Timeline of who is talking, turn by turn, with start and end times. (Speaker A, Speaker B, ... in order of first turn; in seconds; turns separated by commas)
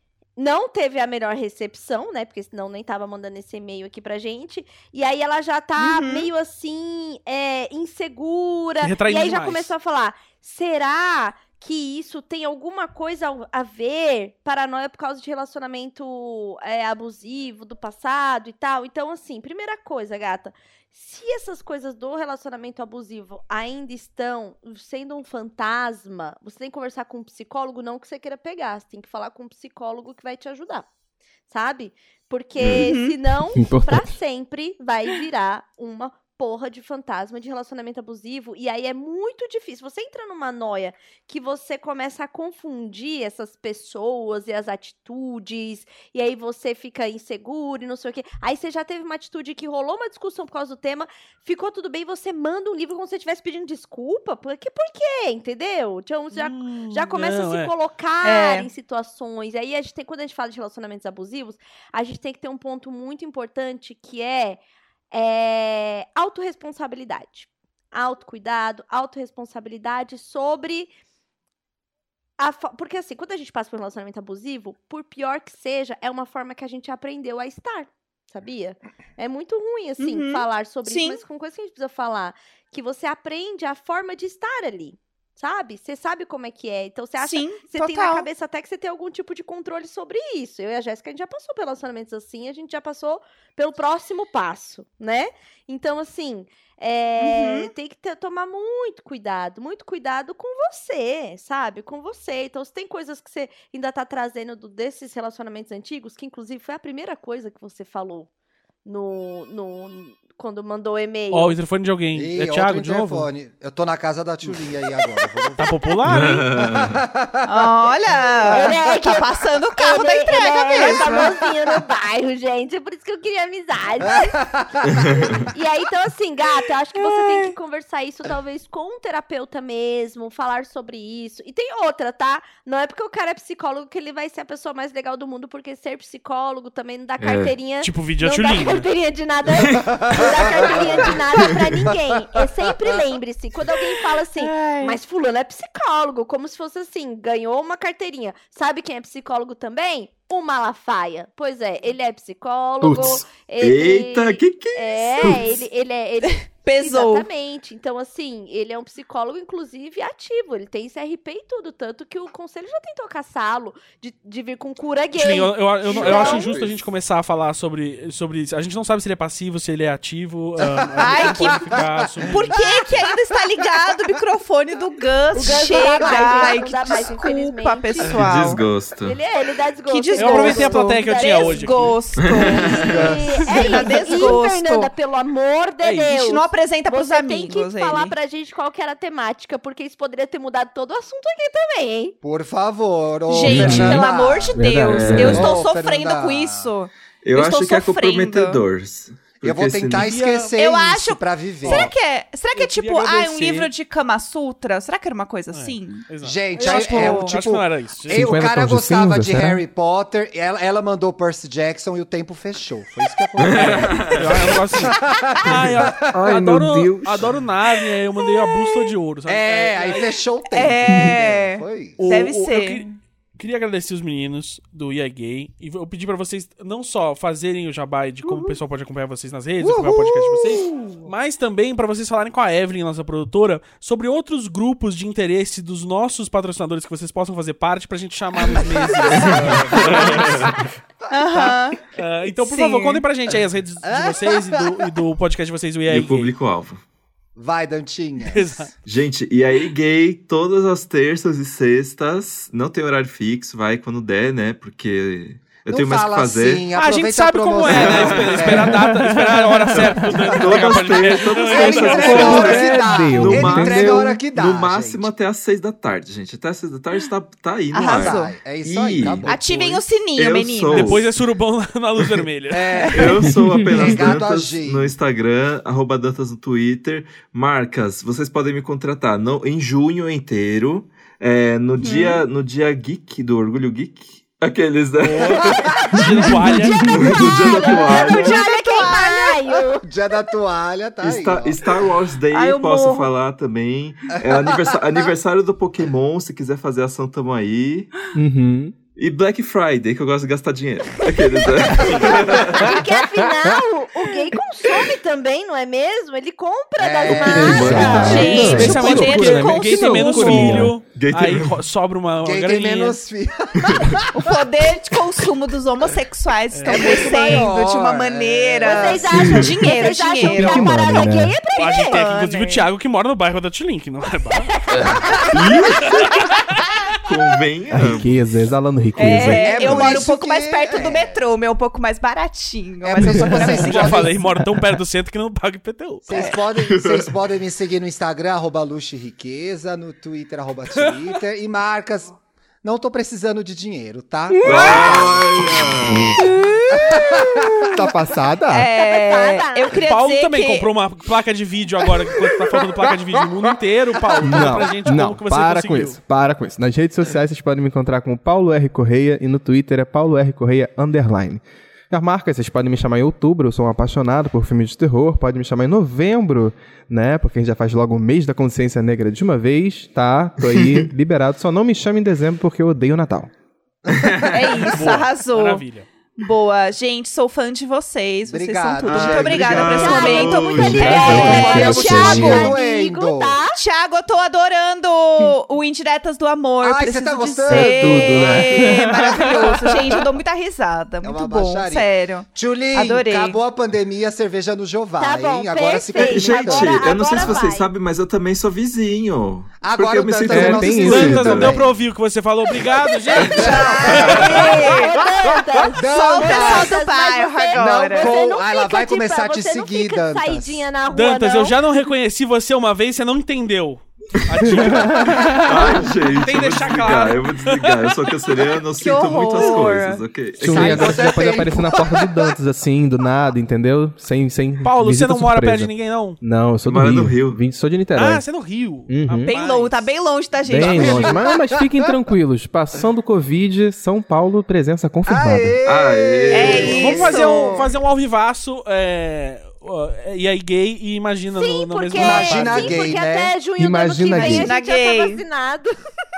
Speaker A: 0.4-30.9, Speaker B: 5.8-6.3, Speaker C: 8.8-9.7, Speaker A: 31.5-64.6, Speaker D: 32.6-32.9, Speaker B: 32.7-33.2, Speaker E: 33.5-34.1, Speaker C: 56.3-57.7, Speaker B: 58.2-58.7, Speaker A: 65.1-70.9, Speaker A: 72.4-108.3, Speaker B: 80.0-81.2, Speaker B: 87.2-88.3, Speaker B: 97.2-97.7, Speaker A: 108.8-111.5, Speaker C: 111.3-113.3, Speaker F: 112.1-115.7, Speaker A: 115.5-115.9, Speaker C: 115.6-116.5, Speaker D: 116.1-117.0, Speaker F: 116.6-117.7, Speaker B: 117.5-121.4, Speaker A: 118.5-124.4, Speaker F: 124.1-125.5, Speaker D: 124.8-125.5, Speaker A: 125.5-166.6, Speaker B: 127.0-127.5, Speaker D: 137.2-137.6, Speaker C: 137.8-138.9, Speaker F: 139.9-141.2, Speaker B: 144.4-145.0, Speaker D: 152.8-155.6, Speaker B: 156.2-157.3, Speaker C: 165.2-172.5, Speaker B: 165.9-166.5, Speaker F: 166.0-166.6, Speaker F: 170.6-173.1, Speaker B: 171.0-171.7, Speaker B: 172.3-178.6, Speaker F: 175.3-176.6, Speaker A: 175.4-178.2, Speaker D: 178.1-179.2, Speaker A: 179.0-181.7, Speaker B: 179.9-184.9, Speaker C: 180.2-182.0, Speaker D: 182.2-183.0, Speaker F: 182.7-184.3, Speaker A: 183.0-192.2, Speaker C: 185.8-186.1, Speaker B: 186.1-188.2, Speaker F: 192.2-196.7, Speaker B: 193.3-198.6, Speaker E: 193.4-195.5, Speaker D: 193.5-193.9, Speaker D: 194.9-195.6, Speaker D: 197.2-200.2, Speaker F: 199.4-201.9, Speaker C: 200.0-200.5, Speaker B: 200.6-206.1, Speaker C: 201.6-201.9, Speaker C: 202.6-203.7, Speaker C: 205.5-208.3, Speaker F: 206.2-216.2, Speaker B: 206.6-207.3, Speaker E: 208.1-209.6, Speaker D: 213.4-214.6, Speaker C: 213.5-220.1, Speaker E: 216.1-217.3, Speaker B: 218.4-218.7, Speaker F: 219.3-222.0, Speaker B: 220.0-222.9, Speaker C: 222.0-240.5, Speaker F: 229.6-231.0, Speaker D: 239.2-240.7, Speaker B: 241.1-241.8, Speaker C: 241.9-246.3, Speaker B: 242.4-243.1, Speaker F: 243.8-244.7, Speaker D: 245.9-246.8, Speaker F: 247.4-248.5, Speaker C: 248.2-248.7, Speaker D: 248.8-256.7, Speaker F: 255.7-258.8, Speaker C: 256.8-262.7, Speaker D: 257.6-258.7, Speaker E: 258.7-260.1, Speaker D: 259.8-271.1, Speaker F: 261.4-265.1, Speaker E: 262.1-264.2, Speaker B: 267.7-268.4, Speaker F: 267.9-269.4, Speaker B: 269.3-271.0, Speaker C: 270.7-272.9, Speaker F: 272.5-274.9, Speaker D: 272.9-288.5, Speaker E: 273.3-274.0, Speaker B: 281.8-282.2, Speaker F: 285.0-286.4, Speaker C: 285.9-287.0, Speaker A: 286.7-289.9, Speaker B: 287.4-289.5, Speaker F: 288.2-289.1, Speaker F: 289.8-291.6, Speaker D: 291.0-297.9, Speaker B: 292.3-293.1, Speaker F: 294.1-294.8, Speaker E: 298.1-298.7, Speaker D: 298.9-302.8, Speaker F: 301.7-302.8, Speaker A: 302.1-308.7, Speaker F: 306.8-308.8, Speaker D: 307.1-308.7, Speaker E: 307.3-310.8, Speaker B: 308.0-310.6, Speaker C: 308.4-313.0, Speaker D: 310.8-311.6, Speaker F: 312.2-314.4, Speaker D: 313.6-314.0, Speaker B: 314.1-320.7, Speaker C: 316.5-317.1, Speaker F: 316.7-319.6, Speaker A: 318.6-322.1, Speaker E: 319.1-319.5, Speaker E: 320.2-321.3, Speaker C: 321.6-326.6, Speaker B: 321.9-322.7, Speaker A: 324.4-325.5, Speaker D: 325.3-326.1, Speaker D: 327.0-328.2, Speaker E: 327.7-330.0, Speaker B: 329.0-334.1, Speaker F: 329.0-331.2, Speaker F: 332.8-334.2, Speaker E: 333.0-333.5, Speaker C: 333.2-336.3, Speaker F: 336.1-345.7, Speaker B: 336.1-336.4, Speaker D: 336.6-337.1, Speaker B: 344.3-345.0, Speaker D: 344.4-346.2, Speaker B: 346.2-347.8, Speaker F: 346.7-347.9, Speaker E: 347.7-348.7, Speaker B: 348.5-350.7, Speaker A: 348.8-349.8, Speaker C: 349.7-356.0, Speaker E: 354.2-373.3, Speaker D: 370.5-370.9, Speaker F: 373.9-374.9, Speaker D: 373.9-374.3, Speaker B: 374.3-375.6, Speaker C: 374.7-375.9, Speaker B: 376.2-382.3, Speaker F: 378.3-383.4, Speaker D: 378.9-381.3, Speaker A: 379.8-383.6, Speaker E: 380.6-382.6, Speaker B: 383.6-393.4, Speaker F: 386.6-390.0, Speaker E: 387.5-389.4, Speaker F: 391.0-397.4, Speaker A: 395.0-397.7, Speaker D: 395.9-401.5, Speaker F: 399.6-401.8, Speaker E: 400.3-401.4, Speaker C: 400.8-404.8, Speaker A: 402.8-411.6, Speaker F: 403.3-404.5, Speaker B: 403.3-405.1, Speaker B: 405.7-408.1, Speaker F: 405.8-406.8, Speaker F: 407.6-410.6, Speaker C: 410.9-418.0, Speaker E: 414.5-415.7, Speaker D: 414.5-421.2, Speaker B: 418.8-420.0, Speaker E: 420.4-428.2, Speaker F: 420.4-422.4, Speaker C: 424.6-426.2, Speaker D: 426.6-427.4, Speaker C: 427.9-429.9, Speaker E: 428.9-429.3, Speaker B: 429.3-431.3, Speaker E: 430.4-435.6, Speaker F: 430.6-431.6, Speaker F: 435.1-437.7, Speaker D: 435.7-437.1, Speaker B: 436.3-437.7, Speaker C: 436.7-442.8, Speaker A: 441.3-445.8, Speaker F: 442.0-443.4, Speaker E: 443.6-444.5, Speaker B: 444.1-445.2